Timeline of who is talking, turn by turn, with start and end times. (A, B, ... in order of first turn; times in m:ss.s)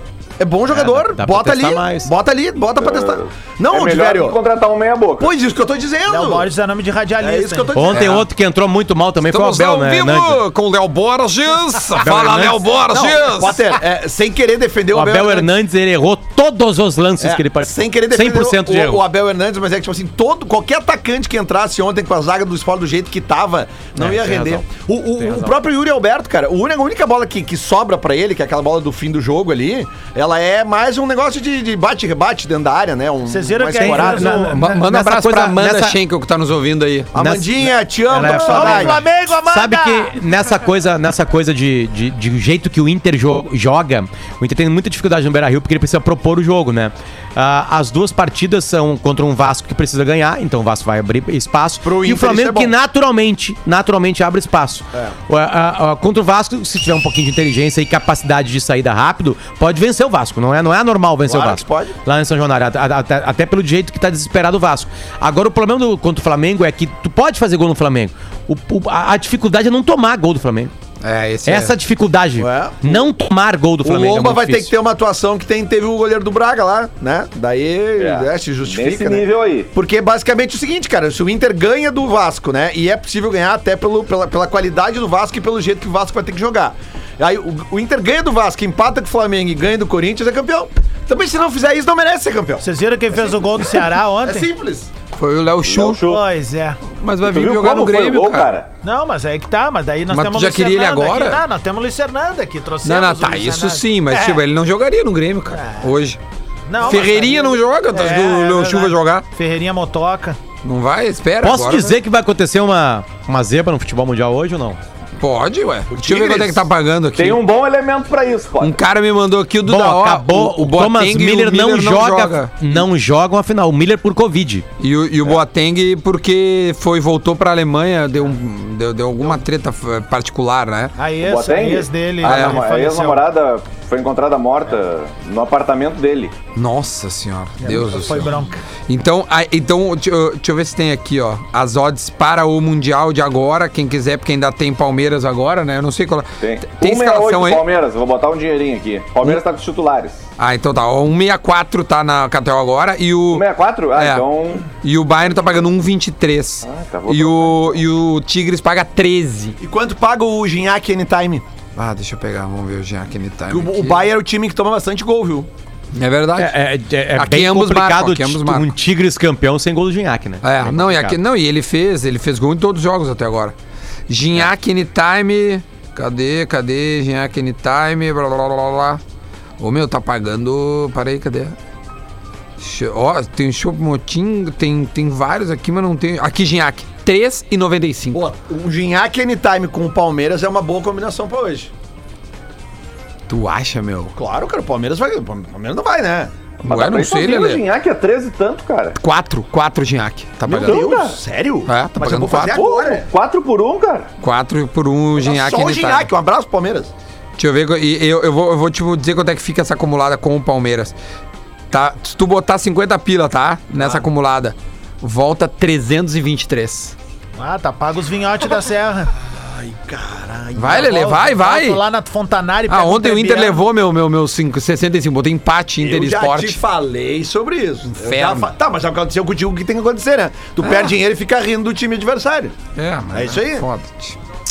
0:00.4-0:04.4 A
0:00.7-0:02.1 B
0:02.8-0:05.3 C
0:05.2-0:06.5 A
0:06.1-0:07.9 D
0:07.2-0:08.2 A
0:07.7-0:10.4 B
0:07.9-0:08.2 E
0:09.3-0:13.7 E
0:12.0-0:12.6 B
0:12.9-0:15.5 A
0:14.9-0:19.0 B
0:17.2-0:34.4 A
0:24.0-0:24.6 B
0:25.2-0:25.6 B
0:33.3-0:34.7 D
0:33.8-0:36.0 B
0:34.5-0:37.1 E
0:37.1-0:39.0 A
0:37.2-1:10.7 B
0:38.2-0:40.2 D
0:51.8-0:52.7 A
1:01.3-1:02.0 A
1:11.0-1:11.7 E
1:11.4-1:14.7 B
1:12.4-1:13.1 A
1:13.8-1:34.9 A
1:18.0-1:19.7 C
1:32.6-1:34.5 D
1:35.2-1:36.0 E
1:35.6-1:36.2 C
1:36.0-1:36.8 D
1:37.0-1:38.5 E
1:37.2-1:38.7 C
1:38.8-1:44.4 D
1:40.1-1:41.4 E
1:42.8-1:46.2 E
1:45.5-1:45.9 D
1:46.7-1:50.4 D
1:46.8-1:49.2 E
1:50.6-1:52.0 E
1:51.4-1:54.8 B
1:55.2-1:57.4 E
1:55.9-1:56.6 A
1:57.1-1:58.8 C
1:58.6-2:02.8 E
1:59.6-2:04.6 B
2:04.8-2:10.9 E
2:11.0-2:13.2 D
2:11.2-2:16.3 C
2:12.2-2:12.6 E
2:16.5-2:27.6 E
2:17.6-2:18.6 D
2:26.4-2:30.2 C
2:30.4-2:39.6 E
2:33.3-2:34.6 C
2:36.6-2:37.8 C
2:39.6-2:41.4 A
2:41.8-2:44.0 E
2:43.5-2:45.5 A
2:45.9-2:46.5 E
2:46.4-2:51.2 B
2:47.2-2:48.7 E
2:50.4-2:53.5 E
2:54.1-2:59.0 E
2:59.6-3:01.5 E
3:02.6-3:08.2 E
3:08.1-3:11.7 A
3:13.3-3:14.1 E
3:14.2-3:16.3 A
3:16.6-3:17.6 E
3:16.6-3:19.0 C
3:19.0-3:20.8 E
3:20.4-3:23.1 A
3:20.5-3:21.2 C
3:21.7-3:22.6 E
3:22.5-3:24.1 C
3:24.2-3:26.1 E
3:25.2-3:26.9 A
3:27.4-3:30.9 E
3:31.7-3:37.0 E
3:33.8-3:34.0 A
3:37.4-3:39.1 D
3:39.3-3:41.2 A
3:40.6-3:41.8 E
3:40.8-3:43.6 D
3:42.7-3:46.6 E
3:45.8-3:52.5 A
3:47.9-3:48.5 E
3:50.6-3:50.9 E
3:52.8-3:54.2 E
3:53.1-3:53.6 A